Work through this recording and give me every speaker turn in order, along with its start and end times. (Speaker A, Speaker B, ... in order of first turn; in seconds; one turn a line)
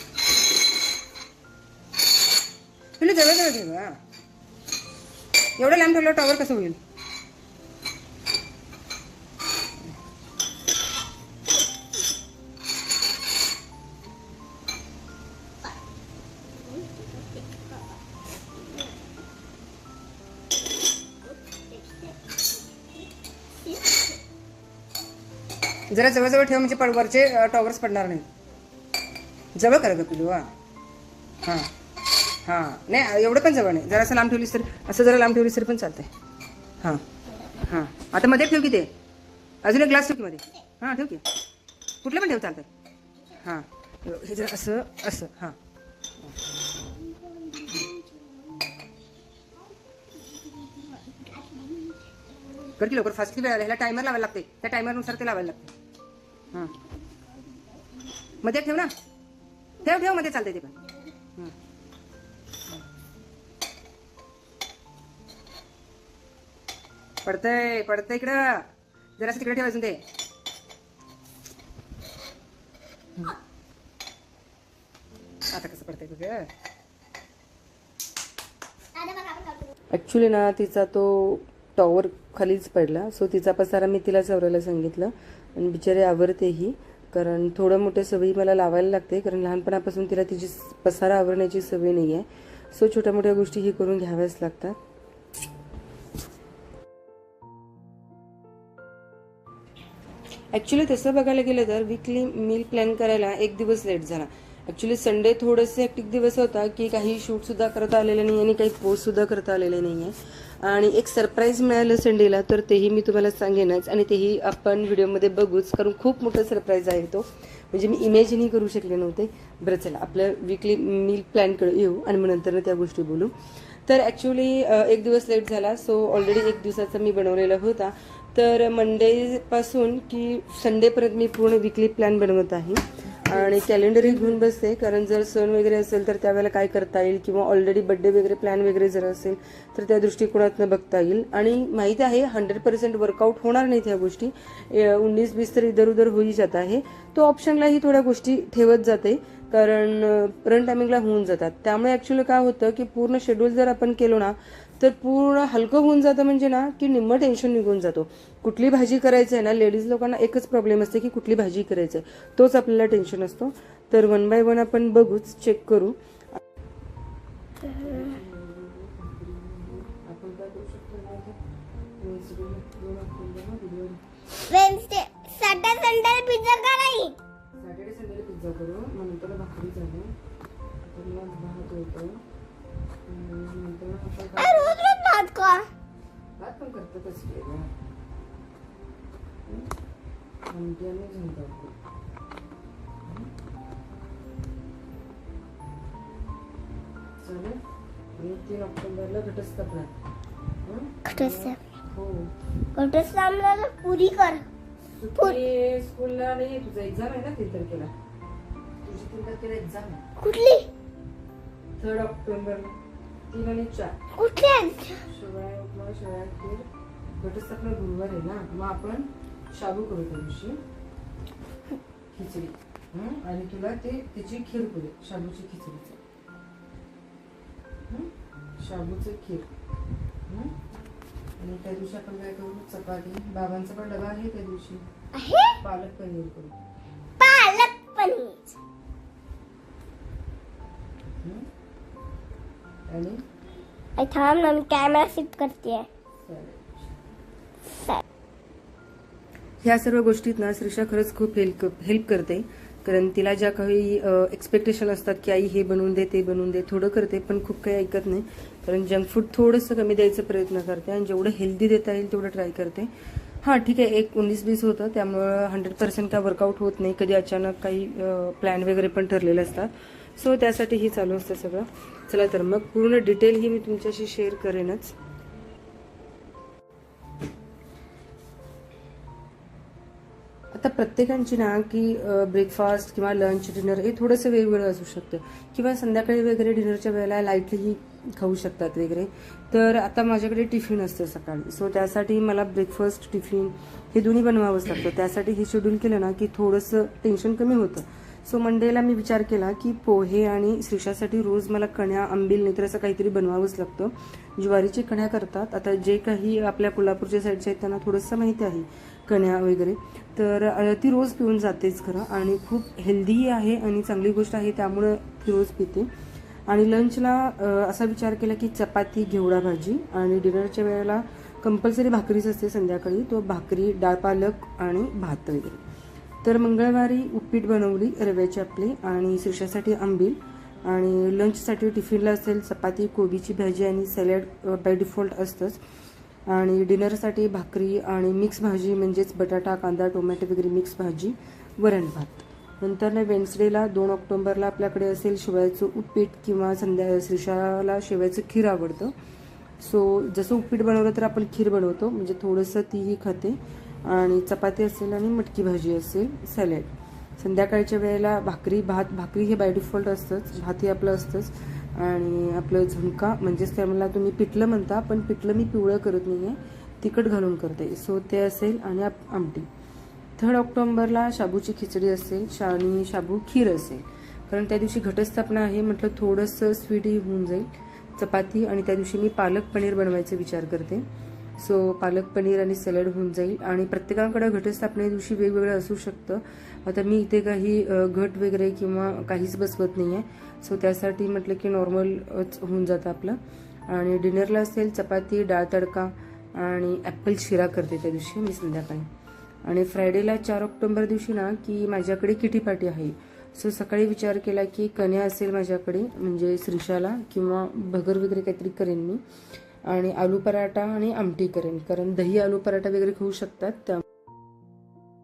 Speaker A: 3.0-4.0
Speaker A: 5.6-6.8
Speaker B: 16.6-17.9
Speaker B: 21.3-22.3
Speaker B: 23.7-24.1
Speaker A: 25.9-28.3
Speaker A: 29.6-30.5
Speaker A: 31.4-31.7
Speaker A: 32.5-36.1
Speaker A: 37.6-38.9
Speaker A: 39.6-41.2
Speaker A: 42.0-42.7
Speaker A: 43.4-45.6
Speaker B: 47.5-47.9
Speaker B: 50.8-51.9
Speaker A: 52.8-55.7
Speaker A: 58.4-58.9
Speaker A: 59.8-60.8
Speaker A: 67.2-68.7
Speaker A: 69.2-70.0
Speaker A: 75.5-76.5
Speaker B: 79.0-79.7
Speaker A: 79.9-94.8
Speaker A: 100.5-123.3
Speaker A: 123.9-166.0
Speaker A: 167.7-171.4
Speaker A: 172.0-174.0
Speaker B: 174.5-177.2
Speaker A: 177.6-180.1
Speaker A: 180.8-182.2
Speaker A: 183.1-184.8
Speaker B: 184.4-185.7
Speaker A: 186.4-187.7
Speaker A: 190.5-191.7
Speaker A: 197.2-197.6
Speaker A: 198.2-199.9
Speaker A: 200.6-202.3
Speaker B: 201.1-201.6
Speaker B: 202.8-204.5
Speaker A: 204.9-207.9
Speaker A: 208.8-210.0
Speaker B: 210.2-210.7
Speaker A: 211.8-212.8
Speaker A: 213.3-214.0
Speaker B: 214.2-215.0
Speaker A: 215.1-220.6
Speaker A: 222.1-226.0
Speaker A: 227.9-229.5
Speaker A: 230.3-230.5
Speaker A: 231.4-234.9
Speaker B: 235.2-235.6
Speaker A: 235.6-236.6
Speaker B: 237.2-238.6
Speaker A: 242.9-243.2
Speaker B: 244.0-245.9
Speaker A: 246.2-246.9
Speaker A: 249.6-262.9
Speaker A: 263.4-274.9
Speaker A: 280.5-315.9
Speaker A: 316.5-325.6
Speaker A: 326.2-335.6
Speaker A: 336.3-348.9
Speaker A: 349.6-369.5
Speaker A: 370.2-380.9
Speaker A: 381.4-398.9
Speaker A: 399.4-409.0
Speaker A: 409.7-413.8